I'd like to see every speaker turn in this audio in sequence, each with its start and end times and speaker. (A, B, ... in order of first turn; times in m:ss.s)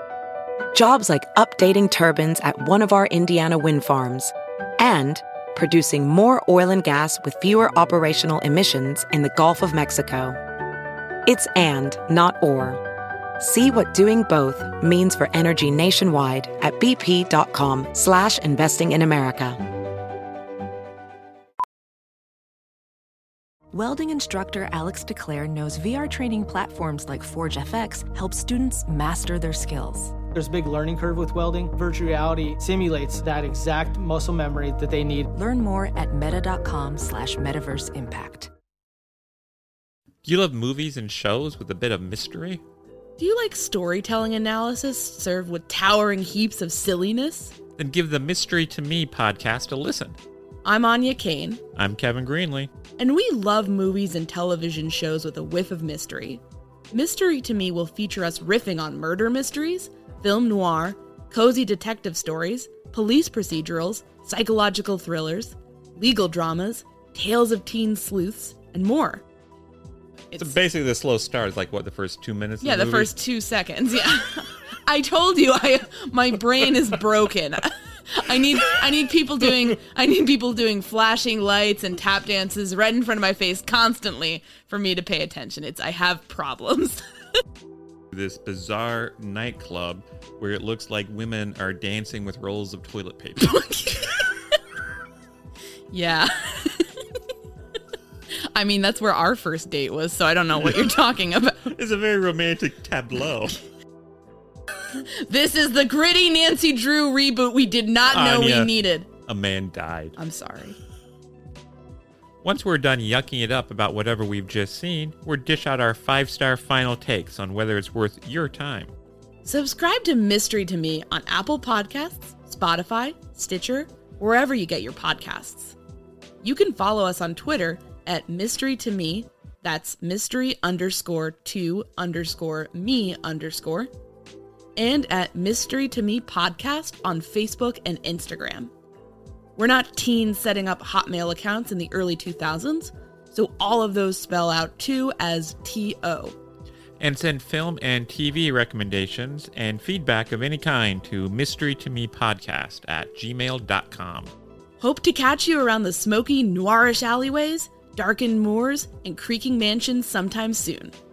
0:00.7-0:10.4 A
0:11.3-0:12.8 A
0:13.4-0:19.6 A
0:23.7-0:30.1 B
0:30.3-0:35.3 C
0:35.3-0:38.5 B
0:40.2-0:42.6 D
0:43.2-0:47.5 E
0:47.8-0:50.2 D
0:50.6-0:51.6 E
0:51.8-0:52.7 D
0:53.0-1:09.2 E
1:10.3-1:10.6 E
1:10.4-1:13.1 D
1:12.6-1:27.0 E
1:28.1-1:33.6 D
1:33.4-1:34.4 E
1:35.9-1:37.0 E
1:38.5-1:41.7 E
1:41.7-1:43.6 D
1:44.9-1:49.1 E
1:48.1-1:48.7 D
1:49.2-1:50.1 D
1:50.2-1:50.8 E
1:52.4-1:58.9 D
1:59.4-2:05.8 E
2:06.4-2:13.9 E
2:14.8-2:18.7 E
2:19.6-2:26.4 E
2:27.0-2:34.3 D
2:34.8-2:40.9 E